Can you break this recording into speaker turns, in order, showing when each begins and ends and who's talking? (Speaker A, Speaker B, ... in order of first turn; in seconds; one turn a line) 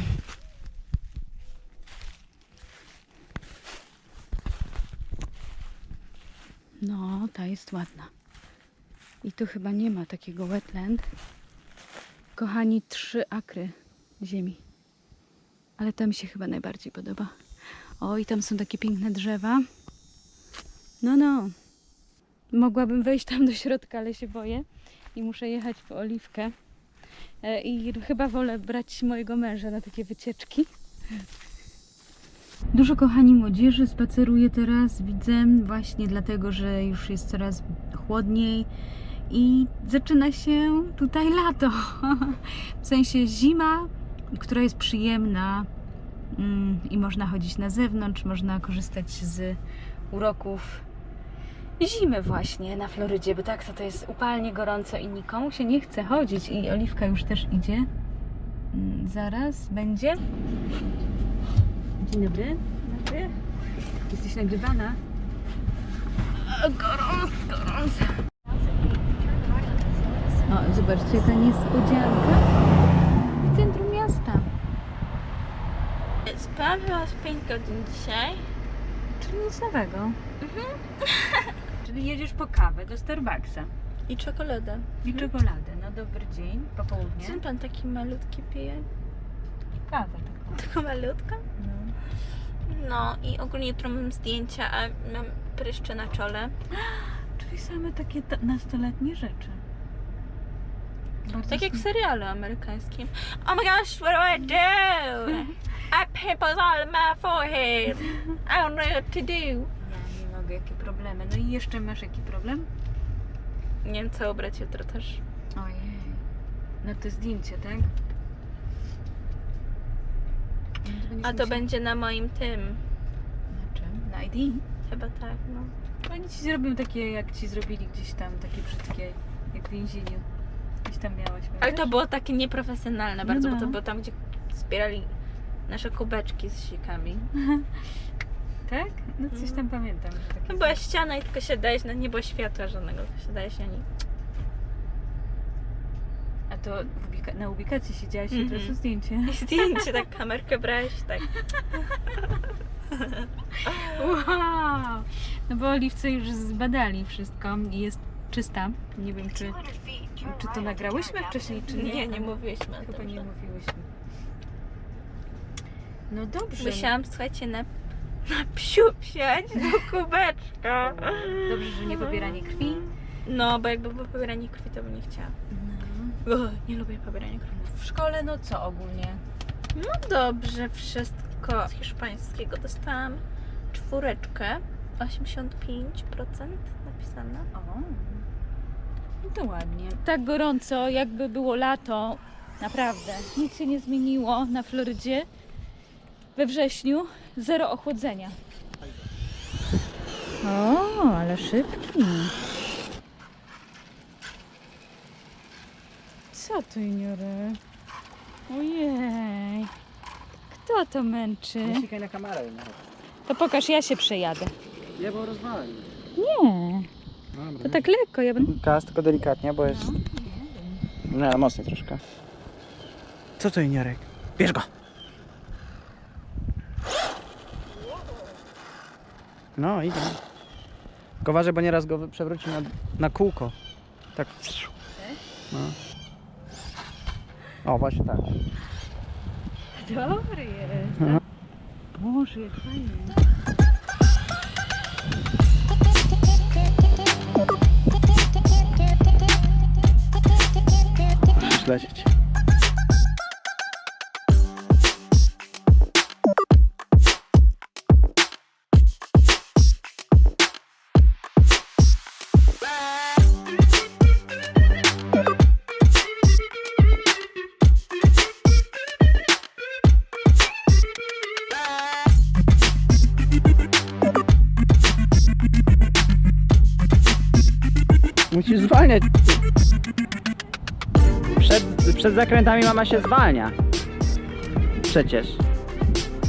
Speaker A: 6.8-8.1
Speaker A: 9.2-11.0
Speaker A: 12.3-14.6
Speaker A: 15.8-17.3
Speaker A: 18.0-19.6
Speaker A: 21.0-21.5
Speaker A: 22.5-26.5
Speaker A: 27.4-30.7
Speaker A: 32.7-38.7
Speaker A: 39.3-45.7
Speaker A: 46.3-49.6
Speaker A: 50.1-50.8
Speaker A: 51.8-57.9
Speaker A: 58.7-60.2
Speaker A: 62.0-63.3
Speaker A: 64.1-65.0
Speaker A: 66.4-68.1
Speaker A: 69.3-72.4
Speaker A: 73.4-74.5
Speaker B: 76.2-78.4
Speaker A: 79.2-80.2
Speaker B: 80.4-81.5
Speaker A: 81.8-83.7
Speaker B: 84.1-85.0
Speaker A: 85.0-87.4
Speaker B: 87.2-88.9
Speaker A: 89.9-90.6
Speaker B: 90.5-91.4
Speaker A: 91.6-91.9
Speaker B: 92.7-96.5
Speaker A: 96.7-99.6
Speaker A: 101.2-101.8
Speaker B: 101.5-109.7
Speaker A: 109.8-112.7
Speaker B: 113.8-115.2
Speaker A: 115.5-116.2
Speaker A: 116.8-117.9
Speaker A: 120.8-121.6
Speaker B: 121.2-122.8
Speaker A: 123.5-124.6
Speaker B: 124.8-125.7
Speaker A: 126.0-130.2
Speaker A: 130.8-131.9
Speaker B: 131.6-135.1
Speaker A: 133.2-133.8
Speaker B: 135.7-137.3
Speaker A: 138.7-140.8
Speaker B: 139.3-139.6
Speaker B: 140.5-143.8
Speaker A: 146.5-150.0
Speaker B: 148.3-148.7
Speaker B: 149.3-151.3
Speaker A: 153.7-163.9
Speaker B: 153.7-154.1
Speaker B: 161.7-163.2
Speaker A: 166.1-166.9
Speaker B: 166.6-167.7
Speaker B: 168.2-171.5
Speaker A: 170.8-172.9
Speaker B: 173.2-175.3
Speaker A: 175.5-176.2
Speaker B: 176.2-177.5
Speaker A: 177.5-179.2
Speaker B: 179.7-187.5
Speaker A: 187.5-188.2
Speaker A: 189.2-195.3
Speaker A: 196.3-198.4
Speaker A: 200.4-202.3
Speaker A: 206.3-207.6
Speaker A: 208.5-209.7
Speaker A: 210.5-211.9
Speaker C: 211.6-212.8
Speaker A: 213.3-214.5
Speaker C: 214.9-215.9
Speaker A: 216.1-216.9
Speaker C: 217.3-217.9
Speaker A: 217.6-218.5
Speaker C: 218.4-219.9
Speaker A: 219.6-220.8
Speaker C: 221.1-222.0
Speaker C: 223.4-224.7
Speaker C: 229.6-230.2
Speaker C: 231.2-233.5
Speaker C: 234.1-234.7
Speaker C: 235.5-235.8
Speaker C: 237.6-238.4
Speaker A: 239.7-241.2
Speaker A: 241.9-243.2
Speaker C: 251.3-252.1
Speaker C: 278.3-279.4
Speaker C: 281.4-283.5
Speaker C: 284.9-285.4